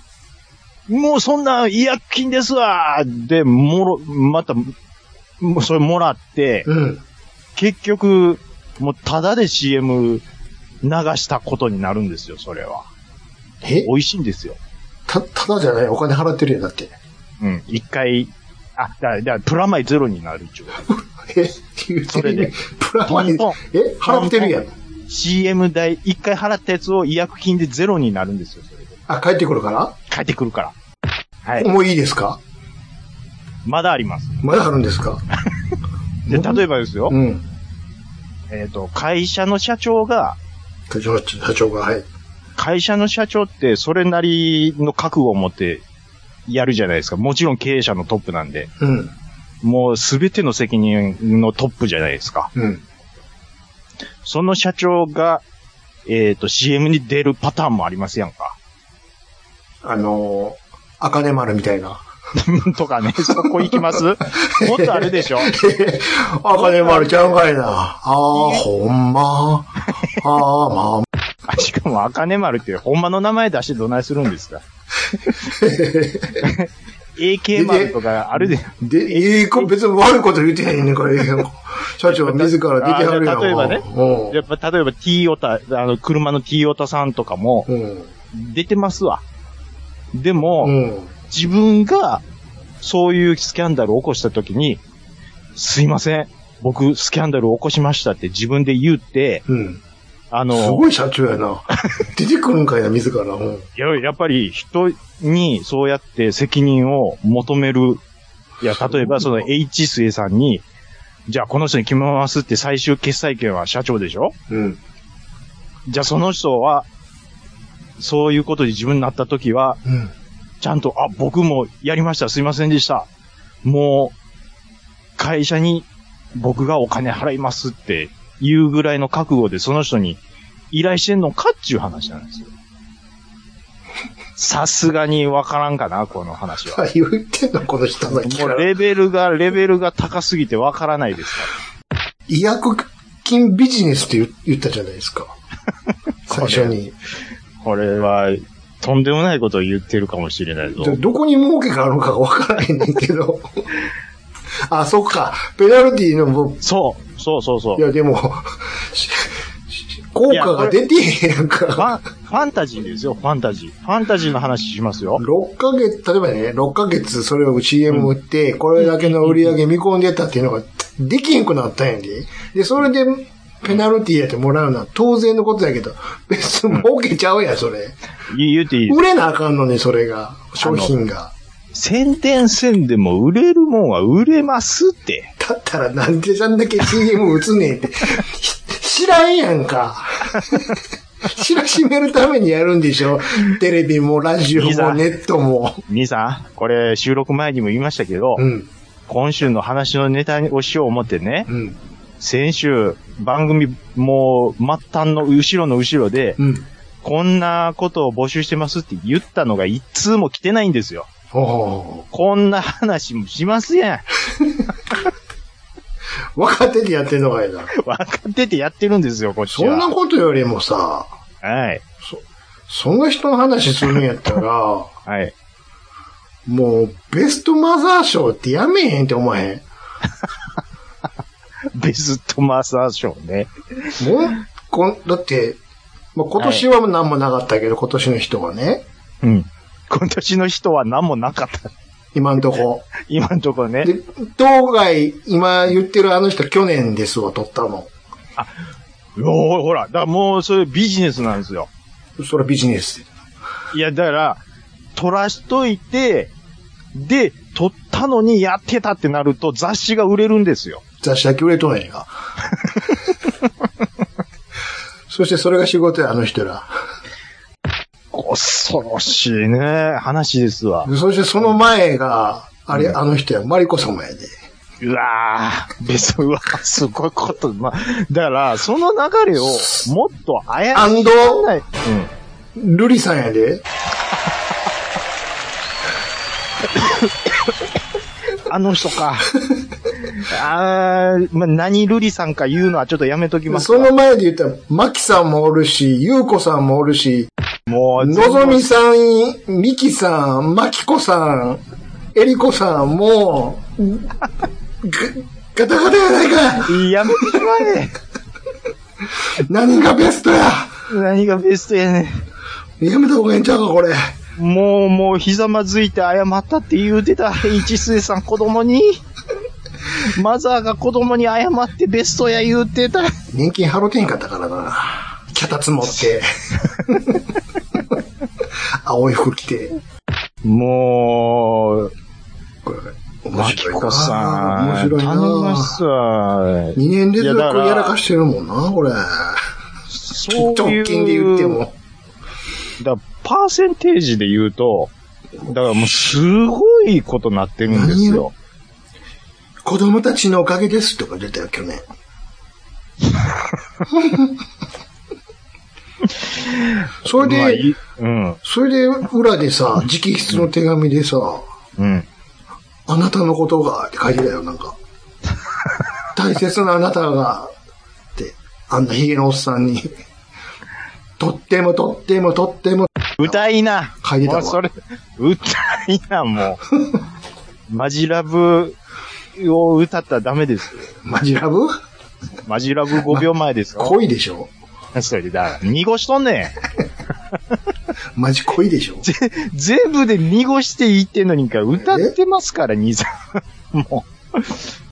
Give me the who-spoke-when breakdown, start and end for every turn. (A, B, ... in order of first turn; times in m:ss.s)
0:00.9-0:04.7 A
0:05.4-0:06.7 A
0:06.7-0:07.0 B
0:07.6-0:10.2 A
0:10.8-0:12.9 A
0:13.6-0:13.9 B
0:13.8-0:14.6 A
0:15.1-0:16.9 B
0:17.4-0:20.8 A
0:20.9-0:24.7 B
0:22.1-0:22.5 A
0:23.0-0:28.9 A
0:29.1-0:29.9 B
0:30.1-0:30.7 A
0:31.4-0:31.7 A
0:31.6-0:32.4 B
0:33.6-0:34.4 A
0:34.4-0:35.2 B
0:36.2-0:37.4 B
0:36.3-0:37.2 A
0:38.5-0:40.4 A
0:40.9-0:42.0 B
0:42.6-0:45.8 A
0:46.5-0:48.7 A
0:48.8-0:49.1 B
0:49.6-0:52.5 A
0:52.5-0:52.8 B
0:54.2-0:55.4 A
0:56.0-0:58.6 A
0:59.8-1:02.0 B
1:02.4-1:05.5 A
1:03.3-1:03.6 B
1:04.4-1:11.1 B
1:06.6-1:07.2 A
1:08.3-1:08.6 A
1:11.5-1:14.6 A
1:15.4-1:16.4 B
1:16.4-1:19.7 A
1:17.5-1:24.4 B
1:22.1-1:27.7 A
1:27.7-1:28.1 B
1:28.3-1:29.2 A
1:30.1-1:30.7 A
1:30.6-1:31.1 B
1:31.3-1:32.2 A
1:32.8-1:34.8 A
1:35.6-1:39.4 A
1:39.5-1:39.8 B
1:40.3-1:40.9 A
1:40.5-1:43.6 B
1:43.8-1:48.0 A
1:48.6-1:50.6 A
1:48.8-1:49.4 B
1:51.3-1:54.3 A
1:54.5-1:54.8 B
1:55.9-1:56.8 A
1:58.0-1:59.8 A
1:59.8-2:00.1 B
2:00.6-2:03.1 A
2:03.6-2:04.1 A
2:05.2-2:10.2 A
2:10.7-2:12.5 A
2:14.4-2:16.8 A
2:16.7-2:18.7 B
2:18.2-2:21.5 A
2:22.3-2:25.3 B
2:26.3-2:26.9 B
2:26.3-2:26.7 A
2:27.6-2:31.0 A
2:30.8-2:33.4 B
2:34.7-2:36.6 B
2:36.6-2:37.8 A
2:37.8-2:39.3 B
2:40.1-2:41.9 B
2:40.3-2:40.8 A
2:41.7-2:45.2 A
2:45.2-2:58.0 B
2:48.8-2:49.6 A
2:58.3-2:59.0 A
2:58.9-3:01.3 B
3:00.6-3:00.9 A
3:01.7-3:05.3 A
3:05.4-3:15.8 B
3:14.5-3:15.0 A
3:15.9-3:18.4 A
3:18.4-3:18.7 B
3:19.1-3:21.5 A
3:21.5-3:21.8 B
3:22.2-3:26.4 A
3:26.4-3:26.6 B
3:27.0-3:31.1 A
3:31.3-3:32.0 B
3:32.1-3:34.1 A
3:36.4-3:37.7 B
3:37.7-3:39.9 A
3:39.5-3:41.1 B
3:41.4-3:41.8 A
3:42.0-3:44.9 B
3:45.1-3:45.3 A
3:46.5-3:49.6 B
3:51.7-3:53.9 A
3:54.0-3:55.6 B
3:56.1-3:58.8 B
3:56.4-3:56.6 A
3:59.2-4:01.7 A
4:02.1-4:02.9 B
4:03.0-4:03.9 A
4:03.8-4:07.9 B
4:09.2-4:11.7 A
4:12.2-4:13.1 B
4:13.7-4:14.4 A
4:14.9-4:16.3 A
4:16.9-4:20.8 A
4:21.0-4:22.1 B
4:25.1-4:26.7 B
4:28.1-4:30.9 A
4:30.8-4:34.3 B
4:34.8-4:42.1 A
4:39.5-4:39.8 B
4:40.7-4:41.5 B
4:42.6-4:43.6 B
4:46.7-4:47.1 A
4:48.4-4:49.4 A
4:50.0-4:53.9 A
4:53.5-4:57.3 B
4:57.7-4:58.6 A
4:58.0-5:01.6 B
5:02.1-5:04.1 B
5:04.8-5:07.4 B
5:06.6-5:08.0 A
5:09.4-5:10.8 B
5:10.9-5:12.2 A
5:12.8-5:14.0 B
5:14.4-5:19.0 A
5:19.9-5:23.2 A
5:23.3-5:26.3 B
5:26.8-5:27.2 B
5:28.8-5:29.8 B
5:30.4-5:31.9 A
5:32.6-5:35.8 B
5:33.3-5:37.9 A
5:36.7-5:39.4 B
5:39.9-5:41.6 A
5:40.3-5:41.7 B
5:42.8-5:44.9 A
5:45.5-5:48.3 A
5:47.7-5:48.2 B
5:49.6-5:51.8 B
5:53.9-5:54.3 B
5:56.4-5:58.4 A
5:57.0-5:57.7 B
5:58.4-6:01.4 B
6:01.8-6:02.1 A
6:02.9-6:04.8 B
6:06.1-6:07.5 B
6:08.1-6:09.9 B
6:11.2-6:13.4 B
6:13.2-6:16.6 A
6:14.0-6:14.6 B
6:17.7-6:18.8 A
6:19.4-6:20.9 A
6:21.0-6:21.7 B
6:22.4-6:24.0 A
6:23.1-6:24.5 B
6:24.9-6:26.6 A
6:28.1-6:29.0 B
6:29.0-6:34.6 A
6:31.8-6:32.1 B